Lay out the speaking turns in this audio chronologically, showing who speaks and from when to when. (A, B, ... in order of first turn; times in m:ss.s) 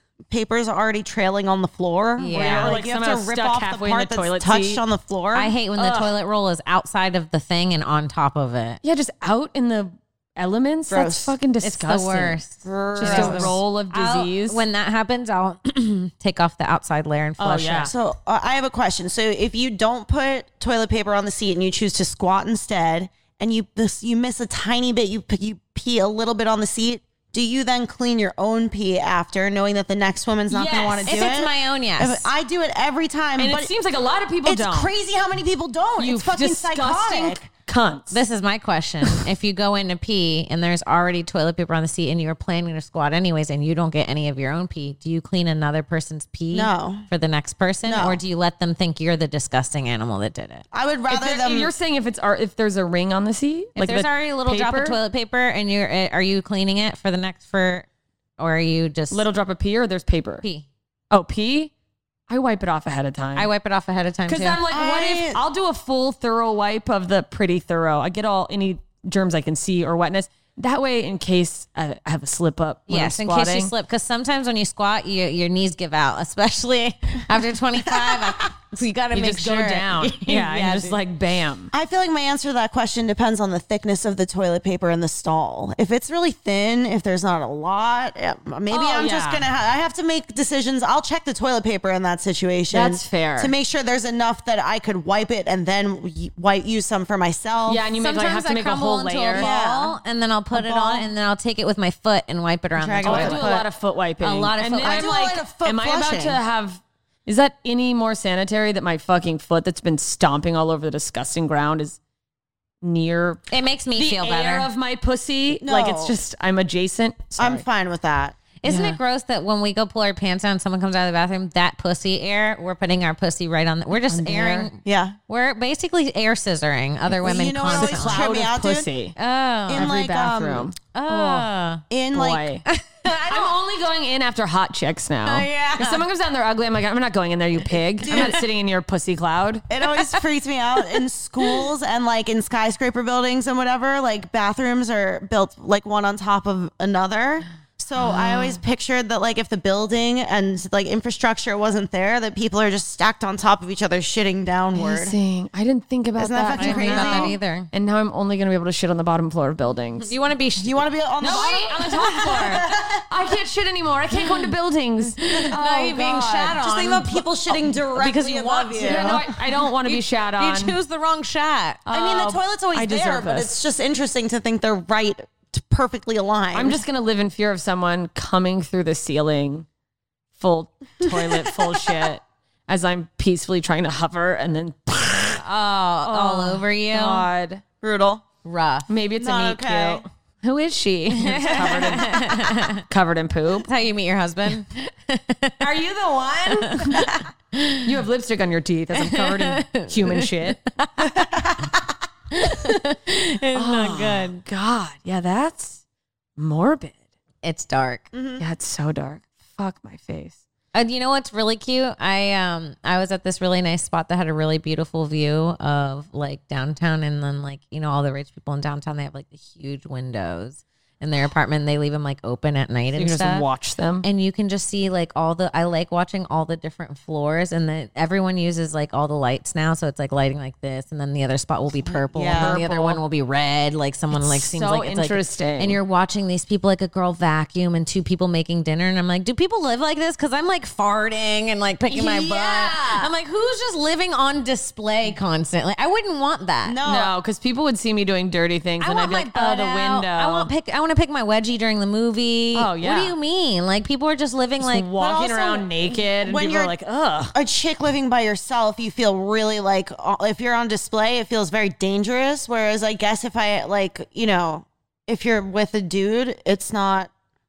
0:00.3-0:05.5 A
0:02.2-0:02.8 B
0:02.3-0:04.8 C
0:05.3-0:08.8 B
0:05.8-0:06.1 C
0:08.8-0:12.4 C
0:10.9-0:11.3 A
0:11.6-0:17.9 B
0:12.6-0:13.6 A
0:13.0-0:14.6 C
0:17.4-0:17.9 C
0:17.9-0:33.7 A
0:30.5-0:31.2 C
0:31.0-0:32.3 B
0:33.4-0:34.9 C
0:34.4-0:37.5 A
0:36.0-0:38.2 C
0:38.1-0:50.6 B
0:46.5-0:47.1 A
0:47.8-0:48.2 A
0:50.7-0:51.7 A
0:51.1-0:55.0 C
0:53.8-0:57.8 B
0:58.4-0:59.2 B
0:59.1-1:00.4 C
1:01.1-1:01.7 C
1:02.3-1:03.5 C
1:03.4-1:04.6 B
1:04.3-1:13.7 C
1:04.7-1:05.4 A
1:12.9-1:21.0 B
1:17.8-1:18.5 A
1:19.1-1:21.7 C
1:21.7-1:37.8 A
1:28.7-1:29.4 C
1:32.7-1:33.5 C
1:37.7-1:39.5 C
1:38.0-1:43.5 B
1:39.3-1:40.0 A
1:40.5-1:41.1 A
1:42.8-1:43.6 A
1:43.0-1:52.0 C
1:44.2-1:45.2 B
1:44.8-1:46.4 A
1:52.8-1:53.4 C
1:53.5-1:54.7 B
1:53.9-1:57.6 C
1:55.6-1:56.2 A
1:57.4-1:58.4 A
1:58.6-2:08.3 B
1:58.6-1:59.0 C
2:04.0-2:04.7 C
2:04.8-2:05.2 A
2:07.1-2:08.9 A
2:07.6-2:09.1 C
2:09.2-2:09.9 B
2:09.7-2:10.7 A
2:09.7-2:11.5 C
2:10.9-2:11.8 B
2:11.9-2:12.5 A
2:12.1-2:12.6 C
2:12.7-2:13.6 B
2:13.2-2:19.6 C
2:15.2-2:16.0 B
2:18.0-2:18.4 A
2:18.0-2:18.4 B
2:19.7-2:35.1 A
2:19.9-2:20.2 B
2:28.0-2:28.5 B
2:34.7-2:40.1 C
2:36.2-2:37.3 A
2:36.5-2:37.7 B
2:40.1-2:42.6 B
2:40.6-2:43.0 A
2:41.2-2:46.6 C
2:44.2-2:44.5 B
2:45.2-2:51.8 B
2:46.5-2:49.2 A
2:48.8-2:50.7 C
2:51.8-2:53.5 C
2:51.9-2:56.8 A
2:56.5-2:59.7 C
3:00.3-3:05.4 C
3:01.0-3:01.4 A
3:05.4-3:07.3 B
3:06.0-3:07.6 C
3:07.8-3:08.2 A
3:08.4-3:08.9 B
3:08.9-3:13.7 C
3:09.2-3:10.0 A
3:11.1-3:12.8 B
3:13.6-3:15.7 B
3:15.6-3:17.2 C
3:16.5-3:17.9 B
3:17.8-3:20.6 C
3:19.0-3:21.1 B
3:21.0-3:21.7 A
3:22.3-3:24.4 B
3:23.5-3:25.8 C
3:26.4-3:27.0 C
3:27.4-3:28.1 B
3:28.1-3:28.4 A
3:28.4-3:30.4 C
3:30.7-3:43.4 B
3:42.9-3:44.0 C
3:44.0-4:06.8 B
3:51.9-3:52.6 A
3:52.4-3:53.0 C
3:54.1-3:55.8 C
4:01.9-4:03.1 A
4:02.5-4:02.8 C
4:06.6-4:07.1 A
4:06.8-4:10.5 C
4:08.8-4:14.9 B
4:12.5-4:13.1 C
4:14.6-4:17.3 C
4:15.0-4:16.7 A
4:17.3-4:27.1 A